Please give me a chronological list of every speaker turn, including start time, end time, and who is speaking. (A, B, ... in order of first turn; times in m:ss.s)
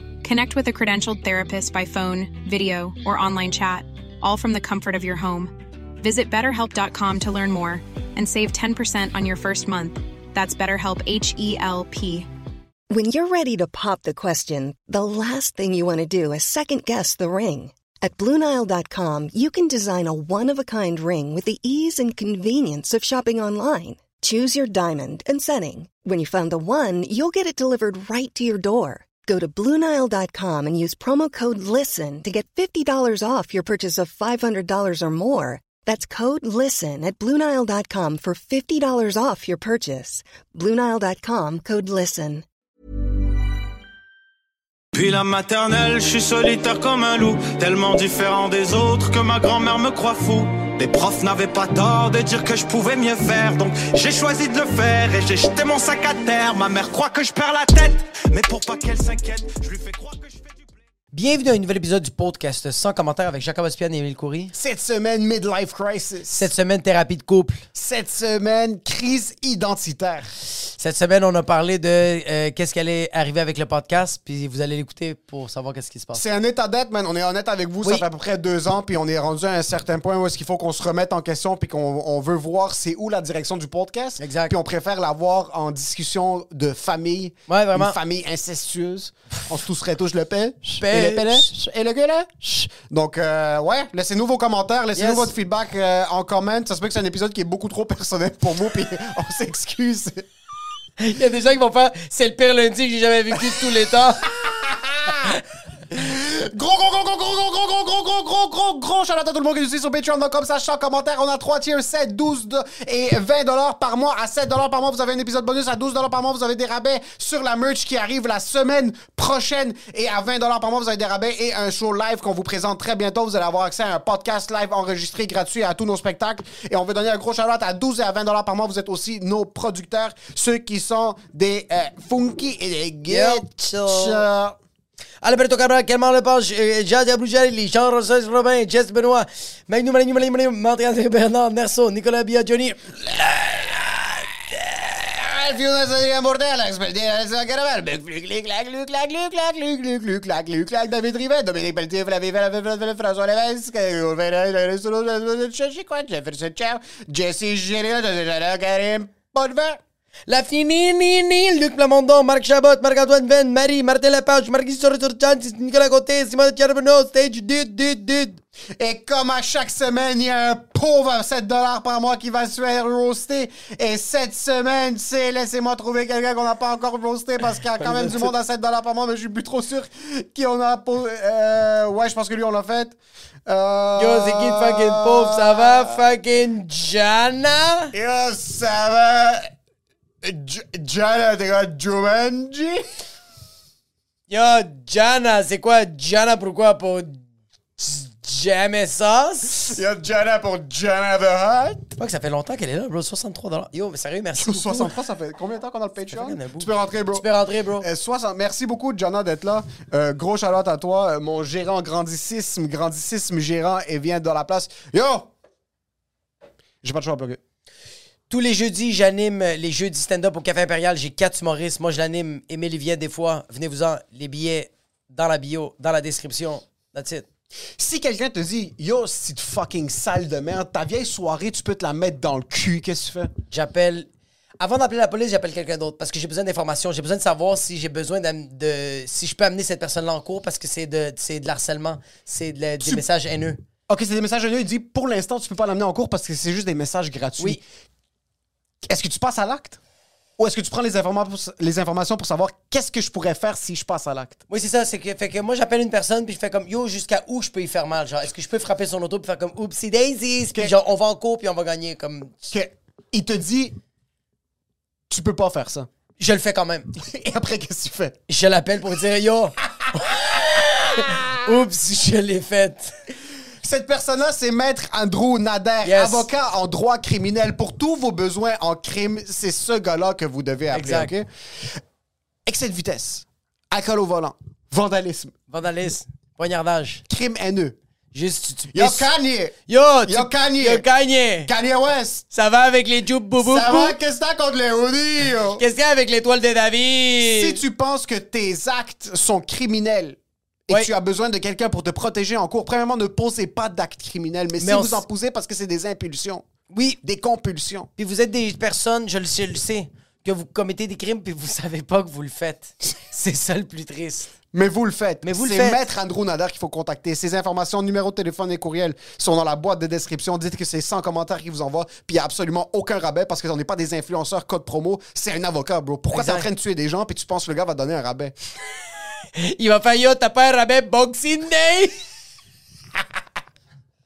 0:00.2-0:12.3 A
0:12.9-0:42.4 B
0:44.9-1:00.6 C
1:01.1-1:04.5 D
1:04.5-1:06.5 E
1:06.3-1:07.6 D
1:07.7-1:10.3 E
1:10.8-1:16.2 D
1:16.1-1:40.3 E
1:24.2-1:24.6 D
1:27.5-1:28.0 D
1:30.6-1:31.5 D
1:34.9-1:35.3 D
1:41.0-1:44.3 D
1:44.4-1:45.3 E
1:45.9-2:14.6 E
2:13.1-2:14.2 D
2:15.2-2:23.2 D
2:23.1-2:39.8 E
2:40.3-2:48.4 D
2:48.8-3:06.1 E
2:57.7-2:58.3 D
3:04.0-3:07.9 D
3:07.9-3:09.5 E
3:10.2-3:12.8 E
3:14.3-3:17.2 D
3:17.8-3:19.8 D
3:19.6-3:21.9 E
3:21.9-3:25.0 D
3:24.4-3:27.3 E
3:26.1-3:27.9 D
3:27.8-3:35.3 E
3:36.8-3:37.4 E
3:38.3-3:47.2 D
3:47.8-3:53.3 E
3:53.5-3:54.1 D
3:54.6-4:03.6 D
4:03.9-4:07.6 E
4:08.8-4:09.8 E
4:10.4-4:14.4 E
4:14.5-4:22.3 D
4:22.4-4:23.7 E
4:25.1-4:25.9 E
4:26.2-4:26.9 D
4:26.9-4:28.2 E
4:28.3-4:32.9 D
4:29.7-4:30.4 E
4:30.9-4:31.4 E
4:33.6-4:41.8 E
4:35.8-4:36.3 D
4:40.7-4:41.1 D
4:42.4-4:45.3 E
4:45.5-4:47.0 D
4:47.1-4:47.8 E
4:48.1-4:49.1 D
4:48.7-4:49.5 E
4:49.7-4:51.5 D
4:50.0-4:50.9 E
4:51.4-4:52.2 E
4:52.3-4:54.0 D
4:53.4-4:55.6 E
4:55.6-4:57.6 D
4:57.2-5:06.4 E
5:04.6-5:05.0 D
5:06.7-5:07.0 D
5:07.0-5:07.9 E
5:08.0-5:14.3 D
5:14.5-5:28.3 E
5:15.2-5:15.9 D
5:26.1-5:26.5 D
5:29.3-5:32.0 D